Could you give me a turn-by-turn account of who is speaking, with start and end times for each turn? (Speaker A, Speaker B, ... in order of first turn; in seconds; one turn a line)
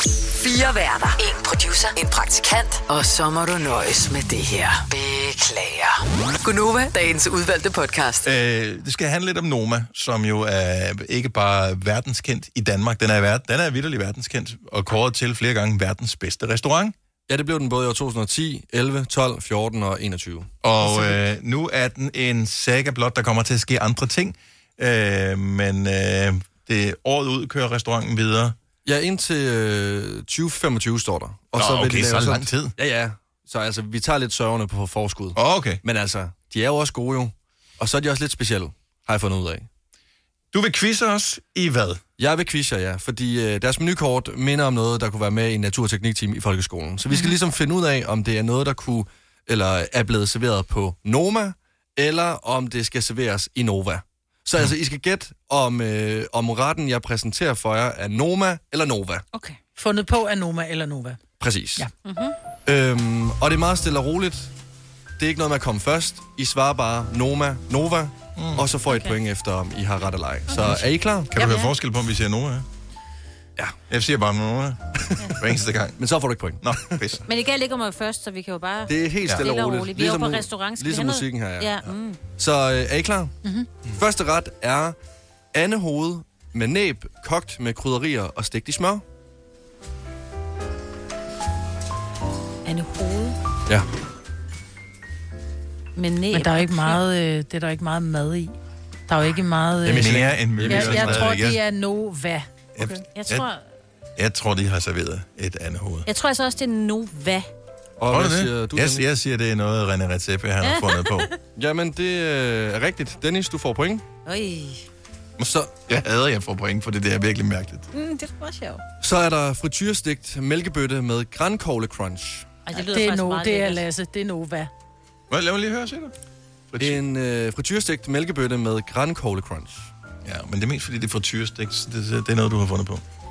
Speaker A: 0.4-8.3
Speaker B: 8.2-17.0
Speaker C: 17.3-20.5
Speaker B: 20.6-28.6
Speaker D: 20.8-21.2
Speaker C: 28.9-39.7
Speaker B: 31.6-32.8
Speaker B: 35.4-35.8
Speaker B: 40.5-42.0
Speaker C: 42.2-59.2
Speaker E: 59.3-59.6
Speaker D: 59.8-61.2
Speaker C: 61.4-61.9
Speaker E: 62.0-62.4
Speaker C: 62.7-64.5
Speaker C: 65.2-71.3
Speaker B: 68.4-68.7
Speaker E: 68.9-69.2
Speaker E: 70.5-70.8
Speaker B: 71.3-72.7
Speaker E: 71.3-71.7
Speaker B: 73.9-76.0
Speaker C: 76.0-77.0
Speaker B: 76.6-77.2
Speaker E: 77.3-82.2
Speaker C: 78.9-81.8
Speaker C: 82.4-83.3
Speaker C: 83.9-85.0
Speaker C: 85.5-89.0
Speaker E: 92.7-93.4
Speaker E: 96.0-97.0
Speaker D: 96.3-98.5
Speaker D: 99.1-102.5
Speaker C: 99.8-101.3
Speaker B: 99.9-101.6
Speaker B: 102.8-103.5
Speaker E: 103.2-103.6
Speaker B: 104.2-106.1
Speaker E: 106.1-107.5
Speaker C: 108.0-109.0
Speaker B: 108.1-111.3
Speaker E: 110.6-111.4
Speaker C: 111.6-114.0
Speaker E: 114.3-114.9
Speaker B: 115.4-117.9
Speaker E: 117.9-118.8
Speaker C: 119.0-122.5
Speaker E: 122.7-123.8
Speaker D: 122.8-124.7
Speaker B: 125.3-126.1
Speaker B: 126.7-127.0
Speaker C: 126.8-129.9
Speaker B: 130.2-133.0